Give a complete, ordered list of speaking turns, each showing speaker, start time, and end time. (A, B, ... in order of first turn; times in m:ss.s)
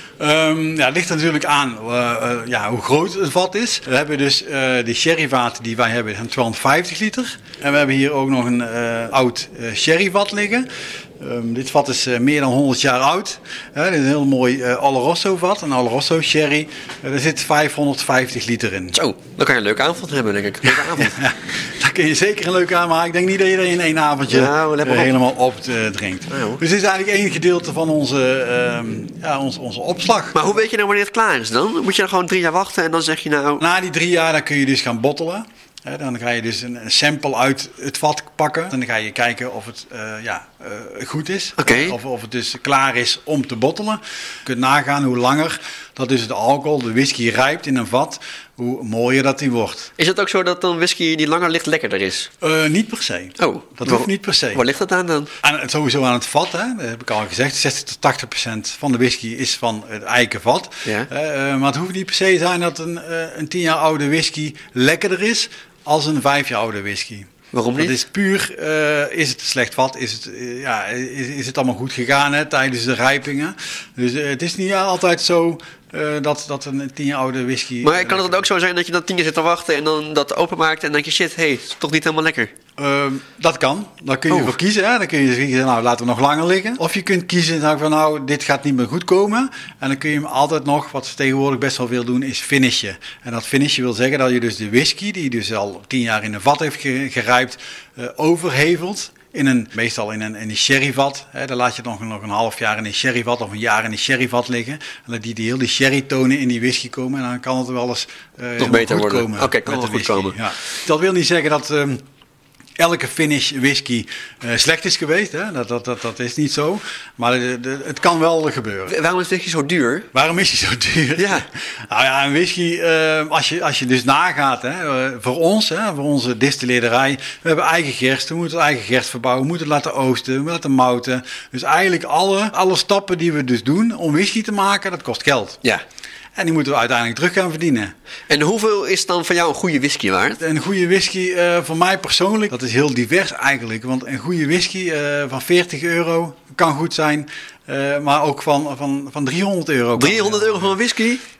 0:00.2-0:10.6 A
0:11.2-0:19.0 A
0:18.9-0:21.2 B
0:20.7-0:30.6 A
0:24.3-0:25.1 B
0:26.3-0:26.6 B
0:30.3-0:33.6 B
0:33.6-0:49.9 A
0:41.6-0:42.0 B
0:50.0-0:52.3 B
0:52.4-0:54.6 A
0:53.4-0:55.3 B
0:55.4-1:18.5 A
1:07.5-1:08.0 B
1:17.8-1:22.5 B
1:22.8-1:52.0 A
1:48.6-1:50.4 B
1:52.8-1:58.9 A
1:58.9-2:00.1 B
2:00.1-2:15.6 A
2:01.2-2:01.4 B
2:16.4-2:17.9 A
2:18.3-2:20.4 B
2:20.4-2:30.8 A
2:30.0-2:31.2 B